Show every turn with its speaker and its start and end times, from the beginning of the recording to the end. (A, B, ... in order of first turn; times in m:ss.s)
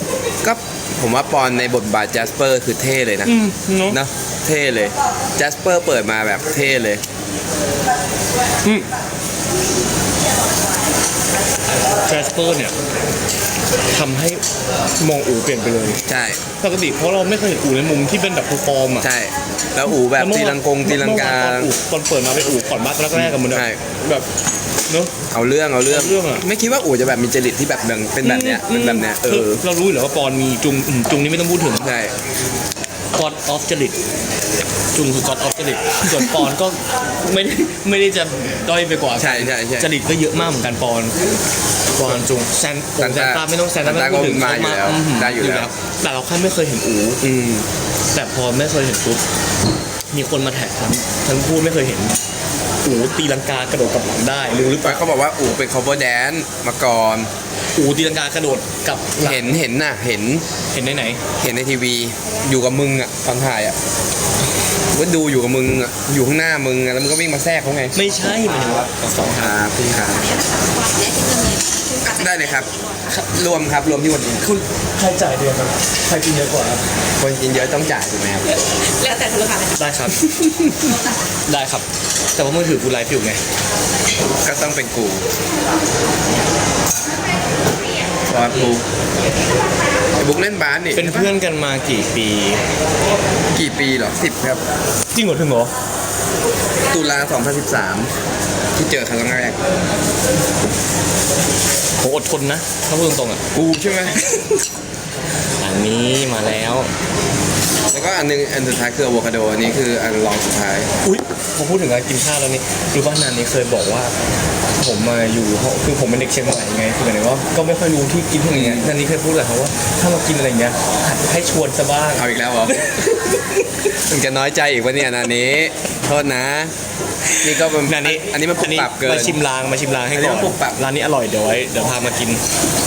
0:00.4-0:03.4 A
0:03.2-0:04.0 B
0:03.9-0:07.0 A
0:12.0-0:12.8 B
0:13.9-0:14.4 B
0:15.0-0:16.0 B
0:16.1-0:16.4 A
0:16.6-0:19.1 B
0:19.0-0:21.7 A
0:20.0-0:24.3 B
0:23.1-0:23.8 A
0:24.9-0:25.1 B
0:25.3-0:29.6 A
0:25.9-0:26.4 B
0:28.2-0:31.9 B
0:31.8-0:32.2 A
0:33.1-0:34.0 B
0:34.9-0:41.2 B
0:39.2-0:39.9 A
0:42.0-0:47.2 B
0:43.0-0:45.7 A
0:47.2-0:47.7 A
0:48.1-0:49.2 B
0:50.1-0:52.2 B
0:52.8-0:55.0 B
0:54.7-0:57.3 A
0:57.8-0:59.5 B
0:59.2-1:00.5 A
1:00.7-1:01.2 B
1:01.4-1:03.8 A
1:04.9-1:10.2 A
1:08.0-1:09.6 B
1:10.0-1:13.2 C
1:12.0-1:14.4 A
1:14.4-1:16.8 B
1:17.2-1:18.6 A
1:18.5-1:19.9 C
1:19.8-1:20.2 B
1:21.5-1:23.4 B
1:24.4-1:25.3 A
1:28.3-1:28.8 A
1:30.2-1:31.3 A
1:31.0-1:32.6 B
1:33.5-1:34.6 A
1:35.1-1:35.7 B
1:36.9-1:38.1 A
1:38.8-1:39.6 A
1:42.0-1:43.4 B
1:43.5-1:44.5 A
1:45.6-1:46.9 B
1:47.9-1:50.9 A
1:51.0-1:54.2 B
1:54.8-2:03.8 B
1:58.5-1:58.9 A
2:02.2-2:02.9 A
2:03.9-2:06.8 A
2:07.2-2:12.4 B
2:07.4-2:09.4 A
2:10.1-2:10.8 A